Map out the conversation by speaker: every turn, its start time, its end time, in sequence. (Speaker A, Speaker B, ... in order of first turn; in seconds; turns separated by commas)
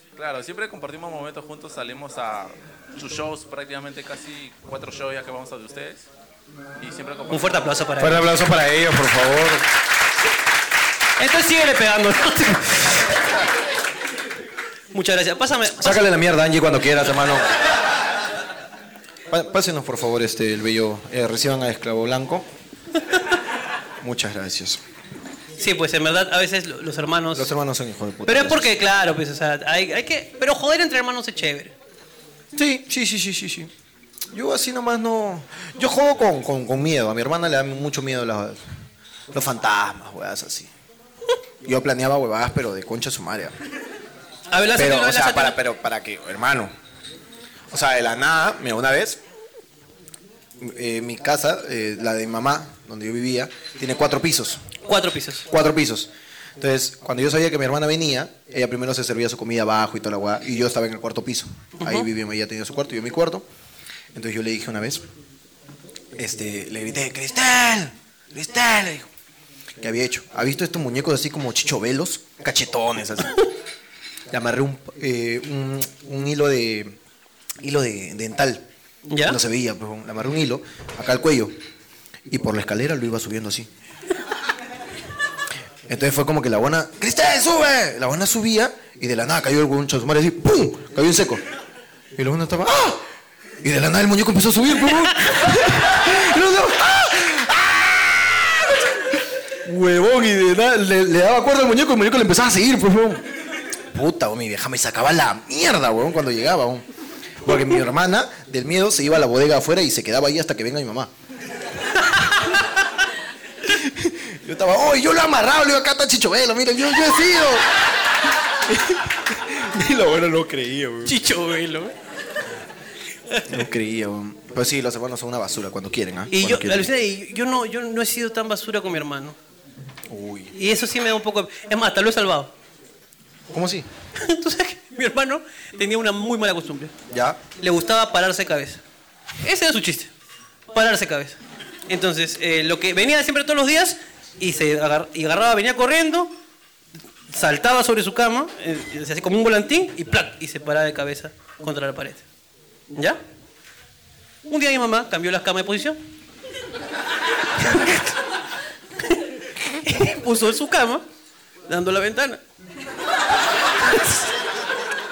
Speaker A: 0.2-6.1, Speaker A: 6.8-7.7, Speaker B: 7.3-8.2, Speaker C: 8.0-9.6, Speaker B: 11.2-13.1, Speaker B: 14.9-16.1, Speaker C: 15.8-17.5, Speaker C: 19.3-22.5, Speaker C: 24.0-24.8, Speaker B: 25.6-27.5, Speaker C: 27.3-28.8, Speaker B: 28.3-31.7, Speaker C: 32.5-33.7, Speaker C: 34.3-38.6, Speaker C: 39.3-40.7, Speaker C: 41.6-43.5, Speaker B: 44.5-45.6, Speaker C: 44.8-46.7, Speaker C: 47.7-49.2, Speaker C: 50.6-54.6, Speaker B: 54.9-55.5, Speaker C: 55.5-63.4, Speaker B: 61.8-62.1, Speaker C: 64.1-65.0, Speaker C: 66.2-69.1, Speaker C: 69.8-73.3, Speaker C: 74.3-77.0, Speaker C: 77.6-78.6, Speaker B: 79.1-79.4, Speaker C: 79.2-81.5, Speaker C: 82.3-83.7, Speaker C: 85.9-91.4, Speaker C: 92.2-93.0, Speaker C: 93.6-103.2, Speaker C: 103.9-106.8, Speaker C: 107.4-111.1, Speaker C: 113.7-117.7, Speaker C: 118.7-121.2, Speaker B: 121.0-121.9, Speaker B: 123.3-123.6, Speaker C: 123.5-126.9, Speaker B: 126.3-129.4, Speaker C: 130.1-130.5, Speaker B: 130.5-132.5, Speaker C: 133.5-133.9, Speaker B: 134.2-136.9, Speaker C: 137.1-137.4, Speaker B: 137.6-138.8, Speaker B: 139.4-140.1, Speaker B: 140.7-146.3, Speaker B: 147.3-152.2, Speaker B: 152.9-153.2, Speaker B: 154.5-156.0, Speaker B: 157.6-158.1, Speaker B: 159.0-161.0, Speaker B: 161.7-162.4, Speaker B: 163.8-164.3